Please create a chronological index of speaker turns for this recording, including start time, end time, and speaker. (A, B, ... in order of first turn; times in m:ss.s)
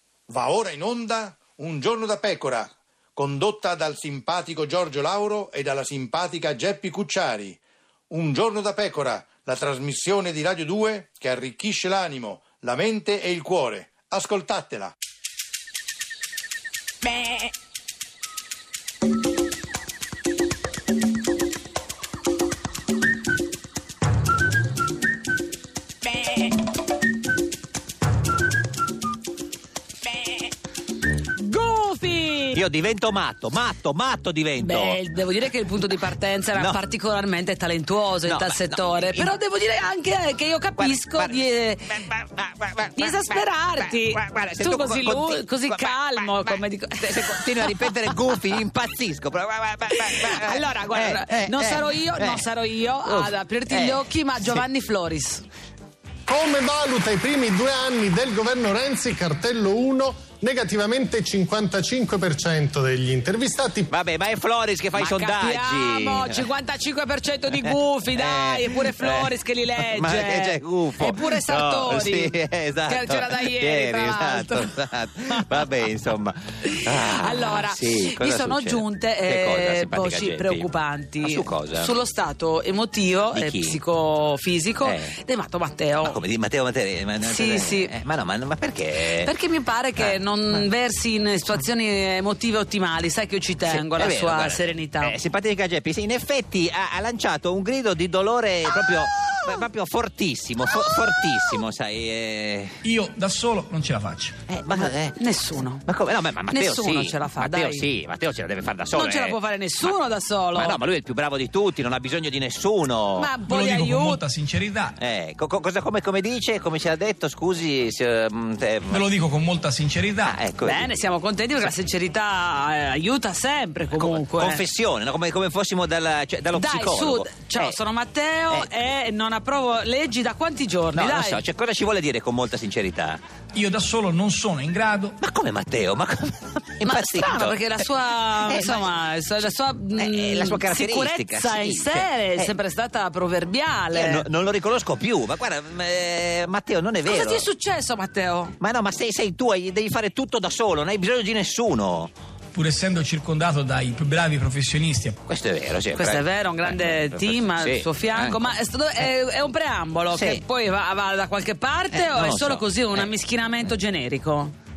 0:00.3-0:14.9 A
0:31.4-0:32.6 B
0:32.5-0:35.0 C
0:34.6-0:42.0 B
0:36.5-0:36.8 C
0:38.2-0:39.3 C
0:40.8-0:52.5 C
0:43.0-0:48.0 B
0:50.2-0:55.4 B
0:53.0-0:54.6 C
0:56.3-1:03.9 D
1:03.9-1:06.4 C
1:04.9-1:14.8 B
1:07.5-1:20.7 C
1:16.6-1:26.2 B
1:21.2-1:22.0 C
1:23.3-1:23.8 C
1:24.8-1:25.1 C
1:26.0-1:29.3 C
1:27.2-1:27.9 B
1:29.2-1:35.1 B
1:30.0-1:30.7 C
1:33.7-1:42.8 C
1:42.8-1:44.4 E
1:44.5-1:45.2 C
1:44.8-1:45.8 B
1:45.8-1:49.9 C
1:46.5-1:47.8 B
1:48.9-1:50.8 B
1:50.6-1:53.3 C
1:53.2-1:54.2 B
1:53.4-1:55.0 E
1:55.0-1:59.1 C
1:58.9-2:00.3 E
2:00.2-2:01.0 C
2:00.6-2:04.6 B
2:03.9-2:07.8 C
2:06.5-2:11.4 B
2:10.9-2:13.2 C
2:13.5-2:15.2 E
2:15.2-2:17.8 C
2:16.8-2:24.2 B
2:18.4-2:18.9 C
2:20.0-2:22.5 C
2:23.9-2:27.4 C
2:27.0-2:28.5 B
2:28.6-2:32.1 C
2:32.5-2:35.2 E
2:35.3-2:38.5 C
2:36.0-2:44.5 B
2:40.1-2:40.4 C
2:41.9-2:43.1 C